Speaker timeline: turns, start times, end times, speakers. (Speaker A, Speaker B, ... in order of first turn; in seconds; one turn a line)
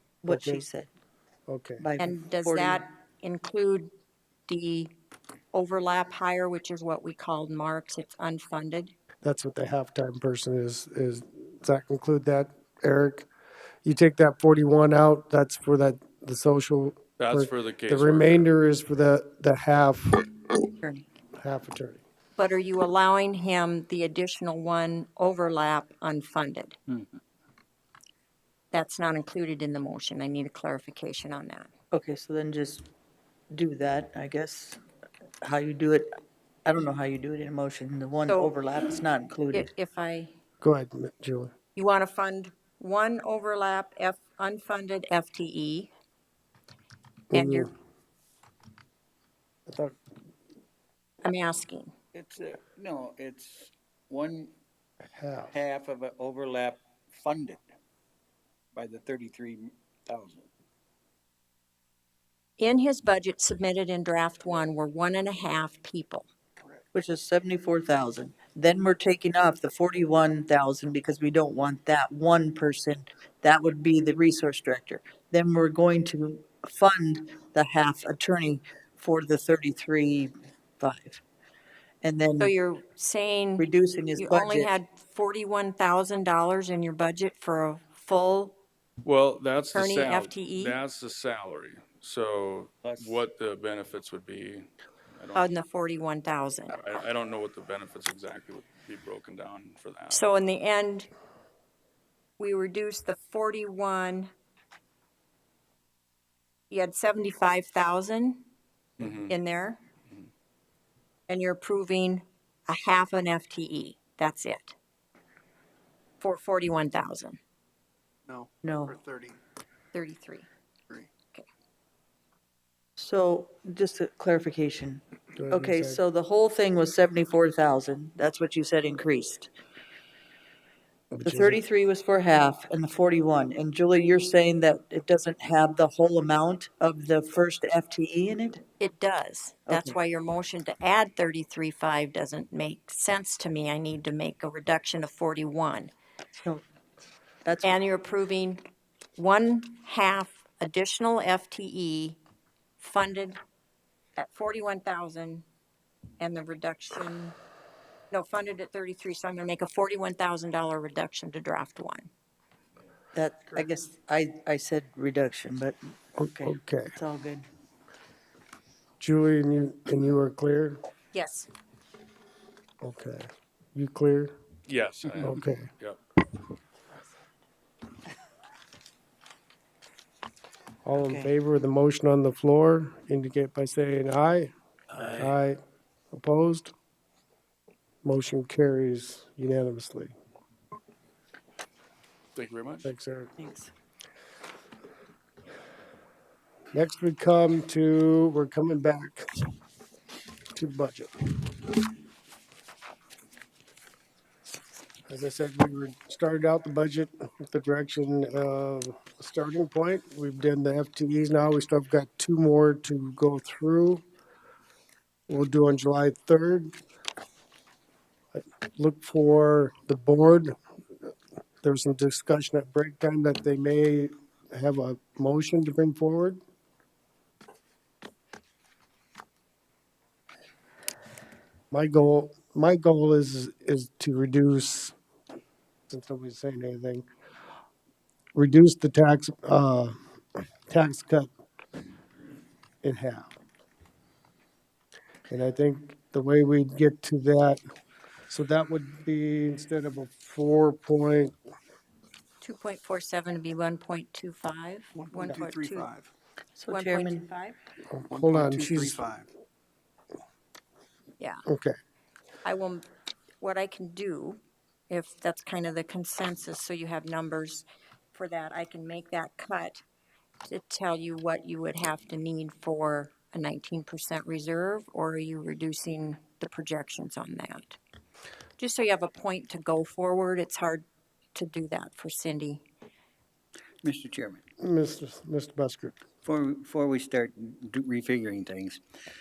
Speaker A: 0.2-0.9
Speaker B: 0.3-0.7
Speaker B: 1.5-1.9
Speaker A: 1.8-2.8
Speaker C: 2.0-3.9
Speaker C: 4.5-4.9
Speaker C: 5.5-8.9
Speaker B: 9.2-13.3
Speaker B: 13.8-20.3
Speaker D: 17.2-18.5
Speaker B: 21.4-22.0
Speaker C: 22.4-26.8
Speaker C: 28.7-31.7
Speaker A: 31.9-32.9
Speaker A: 33.5-34.8
Speaker A: 35.4-36.1
Speaker A: 36.7-39.7
Speaker C: 38.3-38.5
Speaker C: 39.5-40.3
Speaker B: 40.6-41.5
Speaker C: 41.8-45.9
Speaker C: 47.3-47.7
Speaker B: 47.3-47.7
Speaker B: 49.7-50.0
Speaker C: 51.2-51.9
Speaker E: 52.1-54.5
Speaker B: 55.1-55.6
Speaker E: 55.5-57.6
Speaker E: 58.7-60.5
Speaker C: 62.6-66.3
Speaker A: 66.9-81.2
Speaker A: 82.0-82.5
Speaker C: 82.4-83.7
Speaker A: 83.6-84.7
Speaker C: 84.2-88.6
Speaker D: 89.0-95.5
Speaker C: 89.7-90.8
Speaker E: 92.8-93.3
Speaker C: 95.3-96.8
Speaker D: 96.7-100.3
Speaker C: 100.1-101.1
Speaker C: 102.4-104.3
Speaker C: 106.7-108.4
Speaker D: 109.0-109.3
Speaker C: 109.3-109.8
Speaker C: 111.3-114.8
Speaker C: 116.2-117.4
Speaker F: 118.3-119.3
Speaker A: 118.6-119.0
Speaker C: 119.9-120.5
Speaker A: 123.0-129.5
Speaker B: 125.4-126.0
Speaker B: 131.1-131.6
Speaker A: 131.3-138.6
Speaker C: 138.8-145.9
Speaker A: 139.7-139.9
Speaker A: 146.4-146.6
Speaker A: 147.4-147.8
Speaker C: 147.6-148.6
Speaker C: 149.2-152.2
Speaker C: 152.8-153.4
Speaker C: 154.2-155.4
Speaker C: 156.2-157.4
Speaker C: 158.1-162.1
Speaker A: 163.1-167.5
Speaker B: 166.2-166.9
Speaker B: 169.0-170.8
Speaker C: 171.1-171.5
Speaker B: 172.8-174.3
Speaker D: 174.7-176.0
Speaker B: 175.2-175.7
Speaker B: 180.8-184.5
Speaker A: 181.0-181.3
Speaker D: 184.9-185.3
Speaker B: 185.1-185.6
Speaker B: 186.1-186.7
Speaker B: 188.0-190.1
Speaker D: 192.4-192.9
Speaker B: 192.8-193.3
Speaker A: 193.4-193.7
Speaker B: 196.7-199.3
Speaker B: 200.6-201.7
Speaker B: 205.1-214.0
Speaker B: 215.3-216.7
Speaker B: 218.3-220.6
Speaker B: 221.6-226.4
Speaker B: 231.7-234.9
Speaker B: 235.9-237.1
Speaker B: 238.3-240.0
Speaker B: 240.7-241.3
Speaker B: 242.8-243.3
Speaker B: 245.3-247.6
Speaker B: 248.3-251.3
Speaker C: 252.4-255.9
Speaker F: 255.1-256.0
Speaker A: 256.6-257.3
Speaker C: 256.7-257.6
Speaker B: 257.9-259.0
Speaker F: 258.1-259.2
Speaker B: 261.5-261.8
Speaker C: 262.4-262.9
Speaker C: 263.4-269.8
Speaker C: 270.5-277.8
Speaker C: 278.6-282.6
Speaker E: 283.8-284.4
Speaker B: 284.6-286.0
Speaker E: 286.2-288.8